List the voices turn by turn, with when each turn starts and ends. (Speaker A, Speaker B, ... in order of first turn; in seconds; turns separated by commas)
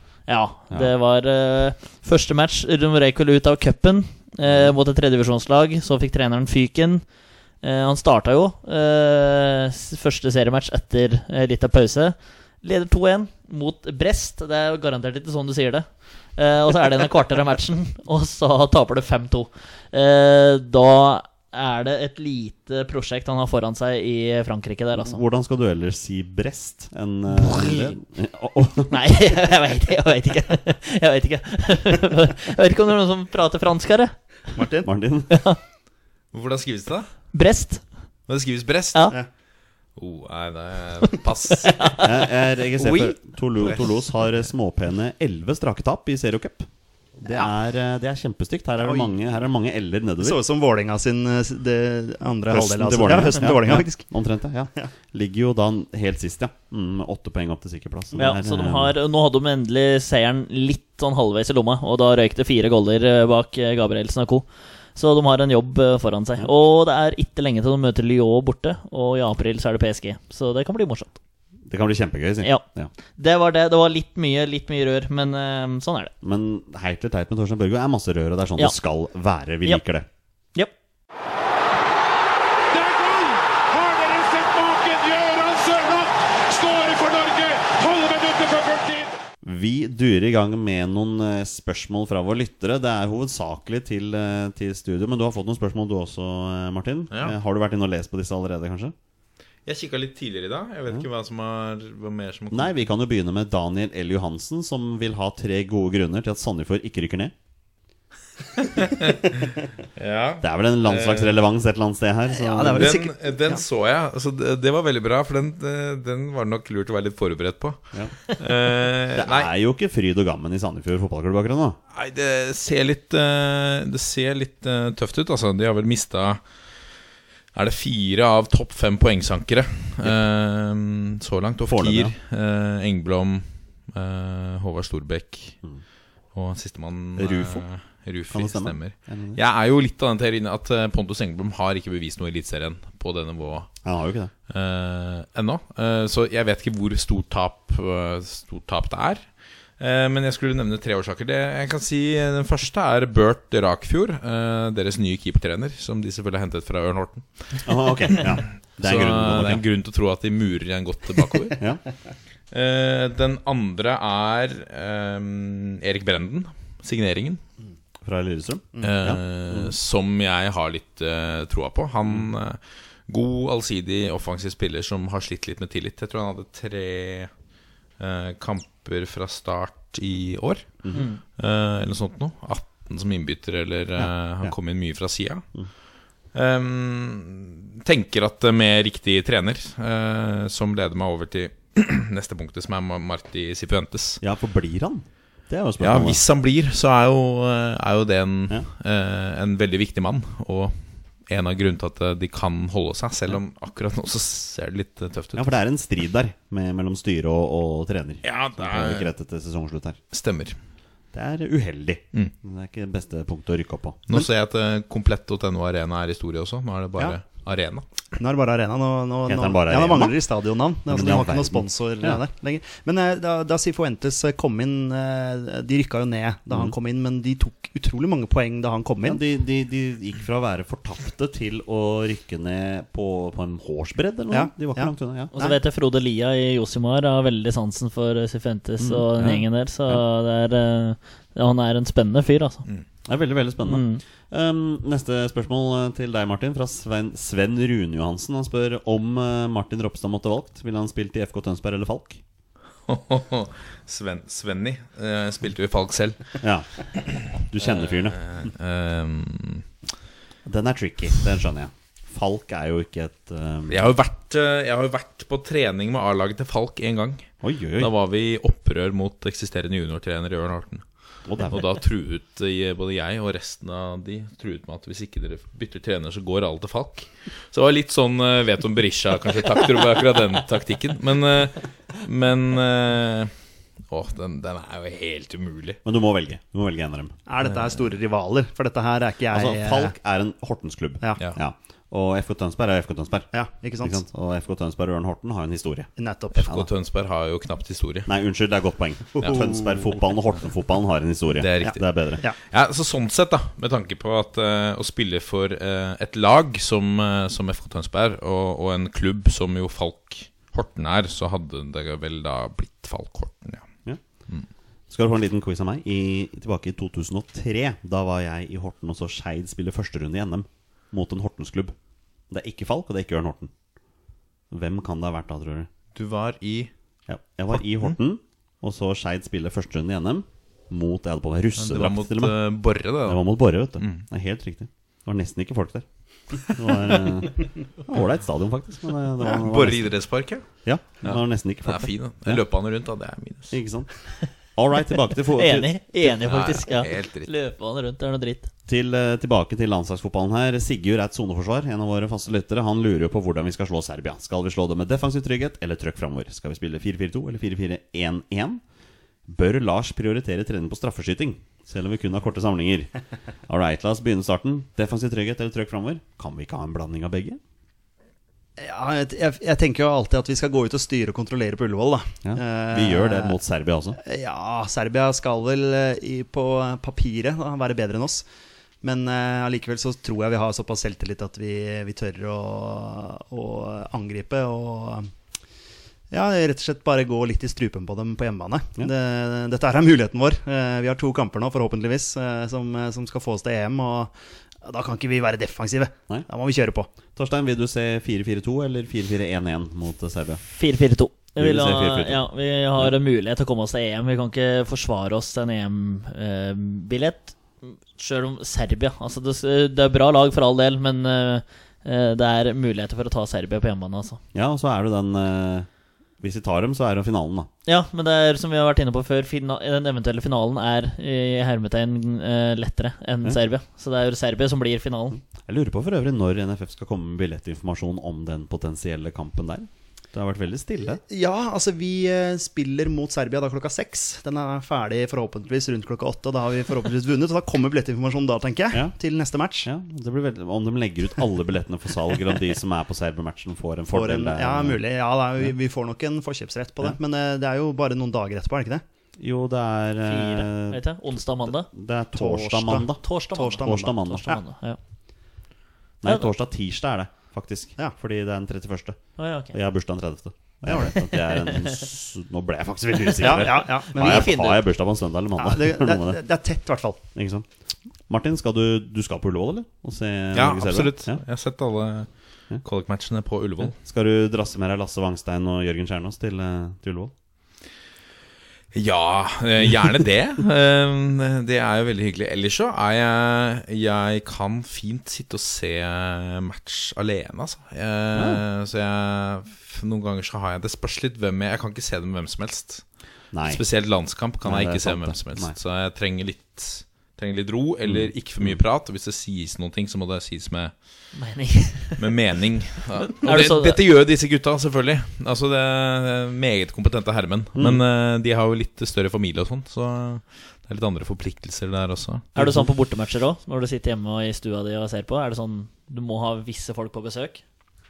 Speaker A: 0.3-25.2, Speaker B: 4.4-4.8, Speaker B: 25.0-28.9, Speaker A: 27.3-28.0, Speaker A: 28.9-34.5, Speaker C: 34.5-34.9, Speaker B: 34.8-35.5, Speaker A: 35.3-35.6, Speaker D: 36.3-37.1, Speaker A: 37.3-38.0, Speaker D: 38.3-39.3, Speaker D: 40.0-42.0, Speaker A: 41.7-42.1, Speaker B: 42.0-50.4, Speaker A: 42.8-43.2, Speaker D: 43.6-43.9, Speaker C: 48.8-49.1, Speaker C: 50.2-54.2, Speaker B: 52.5-59.0, Speaker A: 58.1-71.2, Speaker B: 71.7-72.9, Speaker A: 72.4-76.1, Speaker B: 76.2-80.1, Speaker E: 82.7-89.1, Speaker B: 89.4-99.0, Speaker D: 97.1-97.4, Speaker D: 99.7-102.7, Speaker B: 102.5-107.3, Speaker D: 108.6-111.4, Speaker B: 110.4-113.0, Speaker C: 112.3-113.6, Speaker D: 112.7-119.5, Speaker B: 119.2-121.8, Speaker D: 121.9-126.6, Speaker D: 127.5-135.6, Speaker B: 131.6-132.1, Speaker D: 136.3-143.8, Speaker B: 137.2-137.7, Speaker B: 138.3-139.4, Speaker B: 143.8-144.3, Speaker D: 144.5-161.6, Speaker B: 157.6-159.6, Speaker D: 162.5-167.4, Speaker B: 168.0-169.7, Speaker D: 168.8-177.3, Speaker D: 178.0-185.6, Speaker A: 180.9-181.2, Speaker B: 184.0-184.6, Speaker D: 186.3-194.2, Speaker B: 194.2-196.2, Speaker D: 195.8-205.5, Speaker B: 205.3-210.0, Speaker D: 208.2-209.1, Speaker D: 210.1-210.6, Speaker B: 211.1-214.0, Speaker D: 214.1-217.9, Speaker C: 218.2-229.2, Speaker B: 219.3-220.2, Speaker B: 220.9-222.2, Speaker B: 229.0-235.3, Speaker C: 234.3-235.6, Speaker A: 235.3-242.7, Speaker B: 238.8-240.0, Speaker B: 243.1-252.2, Speaker A: 243.7-244.0, Speaker D: 252.9-259.7, Speaker B: 256.4-256.7, Speaker B: 257.2-258.2, Speaker B: 260.4-263.9, Speaker D: 263.7-270.9, Speaker B: 267.4-267.9, Speaker B: 271.3-271.6, Speaker D: 271.4-285.8, Speaker B: 285.9-287.2, Speaker C: 287.3-289.9, Speaker D: 287.4-287.9, Speaker B: 289.3-295.9, Speaker C: 293.3-294.0, Speaker C: 296.0-296.5, Speaker D: 296.3-298.1, Speaker B: 298.1-302.2, Speaker C: 299.2-299.6, Speaker D: 301.4-313.7, Speaker C: 301.6-302.4, Speaker B: 314.9-321.8, Speaker B: 322.3-323.5, Speaker B: 324.5-325.7, Speaker D: 325.9-326.7, Speaker B: 327.1-332.4, Speaker D: 327.5-328.0, Speaker D: 331.6-334.1, Speaker B: 333.1-342.4, Speaker D: 339.2-340.5, Speaker D: 341.0-343.6, Speaker B: 343.5-345.8, Speaker A: 345.4-348.5, Speaker D: 346.2-347.3, Speaker B: 348.7-358.6, Speaker B: 359.3-362.9, Speaker B: 363.5-367.4, Speaker C: 368.6-373.4, Speaker B: 372.2-374.0, Speaker C: 374.0-378.3, Speaker C: 378.8-385.1, Speaker C: 386.1-396.9, Speaker B: 397.1-400.4, Speaker A: 400.5-414.2, Speaker B: 401.4-402.9, Speaker B: 414.3-415.7, Speaker B: 416.2-417.5, Speaker A: 417.7-425.2, Speaker B: 425.2-431.0, Speaker C: 431.1-439.7, Speaker B: 439.6-444.8, Speaker C: 443.9-448.8, Speaker B: 449.2-453.0, Speaker A: 450.0-451.7, Speaker C: 452.1-454.4, Speaker A: 453.0-454.8, Speaker B: 453.6-454.4, Speaker B: 456.0-466.2, Speaker A: 459.2-459.6, Speaker C: 460.7-460.9, Speaker A: 461.1-461.8, Speaker A: 463.1-464.6, Speaker C: 463.2-464.6, Speaker C: 465.4-467.1, Speaker B: 467.1-467.5, Speaker B: 468.1-471.2, Speaker D: 470.3-473.8, Speaker B: 473.8-477.1, Speaker D: 478.7-501.1, Speaker B: 488.1-488.4, Speaker B: 493.3-493.6, Speaker B: 494.4-495.6, Speaker B: 497.9-498.6, Speaker A: 501.1-502.1, Speaker D: 502.0-512.3, Speaker A: 503.2-503.8, Speaker B: 507.6-507.8, Speaker B: 512.4-512.7, Speaker A: 512.4-517.4